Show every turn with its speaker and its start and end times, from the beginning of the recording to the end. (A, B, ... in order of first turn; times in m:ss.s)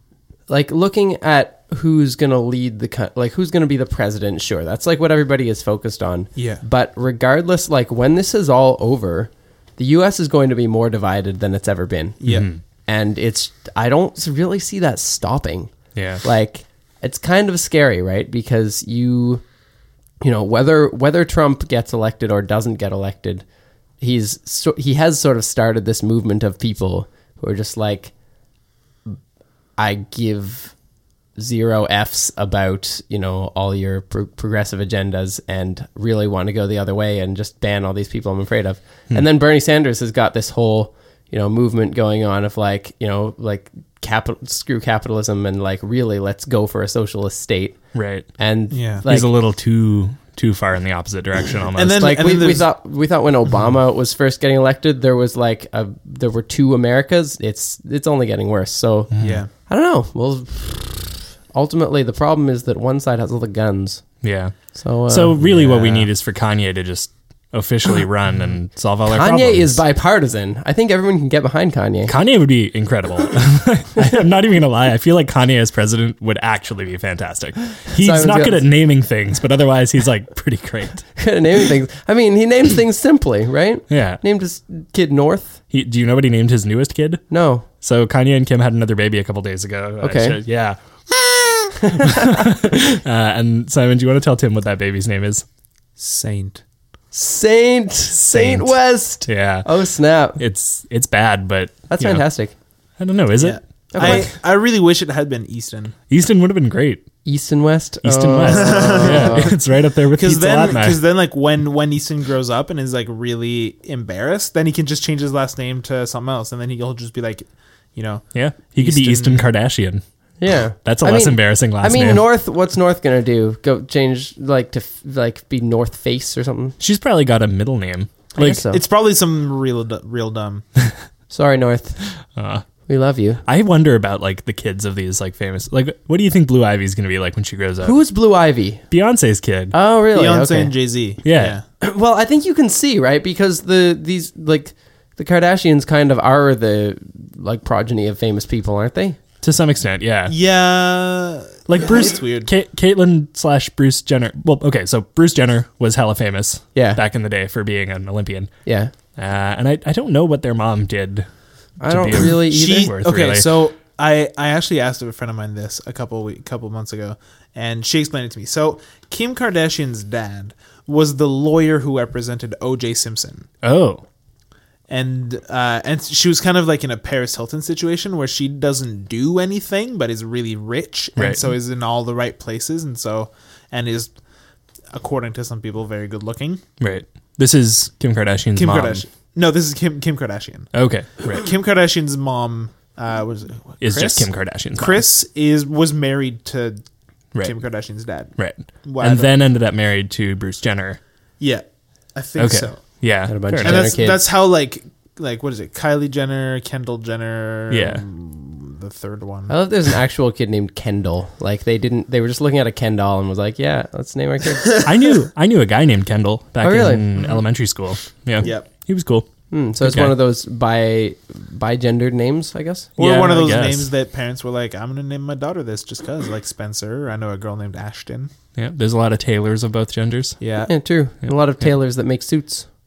0:00.5-0:12.2 A
0:06.4-0:06.6 B
0:12.2-0:12.5 B
0:12.2-0:12.6 C
0:12.9-0:15.7 A
0:15.9-0:16.2 C
0:16.2-0:19.4 A
0:20.2-0:23.4 A
0:24.0-0:28.1 A
0:29.8-0:30.7 A
0:31.4-0:47.8 A
0:47.9-0:48.3 C
0:48.4-0:49.3 A
0:48.7-0:49.0 B
0:49.0-0:52.1 C
0:51.7-0:52.7 B
0:52.0-1:04.0 A
0:59.1-0:59.4 C
0:59.2-0:59.5 B
1:04.2-1:09.8 C
1:04.7-1:06.1 A
1:09.1-1:12.1 A
1:12.1-1:21.1 C
1:18.0-1:18.6 A
1:21.2-1:25.6 A
1:23.9-1:24.2 C
1:25.7-1:27.2 C
1:27.3-1:27.6 A
1:27.8-1:30.8 C
1:30.0-1:30.4 A
1:31.8-1:32.5 A
1:31.9-1:35.4 C
1:36.0-1:36.6 B
1:37.1-1:40.4 A
1:38.2-1:39.7 C
1:40.4-1:42.2 C
1:41.9-1:42.5 A
1:43.0-1:44.2 C
1:43.4-1:45.9 B
1:43.9-1:44.3 A
1:46.1-1:47.0 C
1:47.2-1:49.5 A
1:48.0-1:51.0 C
1:48.4-1:49.6 B
1:50.1-1:59.5 B
1:58.3-2:00.0 C
2:00.4-2:06.8 A
2:00.8-2:02.2 C
2:06.8-2:08.6 C
2:08.4-2:08.8 A
2:08.4-2:10.6 B
2:11.3-2:12.0 A
2:12.3-2:12.6 C
2:12.9-2:13.4 A
2:13.4-2:18.0 C
2:17.8-2:18.8 A
2:18.9-2:19.7 C
2:19.7-2:20.7 A
2:20.1-2:21.6 B
2:21.2-2:21.6 C
2:21.8-2:29.2 A
2:29.4-2:30.4 C
2:30.3-2:32.5 B
2:31.7-2:38.5 C
2:36.7-2:37.0 A
2:38.6-2:38.9 A
2:39.1-2:41.3 C
2:41.8-2:42.9 A
2:41.9-2:43.5 C
2:42.3-2:53.5 B
2:53.6-2:54.0 C
2:54.9-3:04.1 B
3:01.2-3:01.4 C
3:04.9-3:06.6 B
3:06.8-3:09.0 C
3:08.6-3:10.7 B
3:10.7-3:11.5 C
3:11.3-3:16.8 B
3:13.8-3:15.0 C
3:17.4-3:19.3 B
3:18.4-3:21.0 C
3:21.4-3:22.8 B
3:22.4-3:23.9 C
3:23.2-3:24.2 A
3:23.6-3:29.5 B
3:27.7-3:28.0 C
3:29.5-3:34.9 A
3:34.8-3:39.3 C
3:36.6-3:37.1 A
3:37.2-3:37.4 B
3:38.4-3:38.6 B
3:39.5-3:42.9 A
3:39.8-3:40.1 C
3:43.0-3:43.9 C
3:43.0-3:48.3 B
3:48.5-3:50.4 C
3:50.4-3:50.7 B
3:50.6-3:52.7 A
3:51.2-3:51.6 C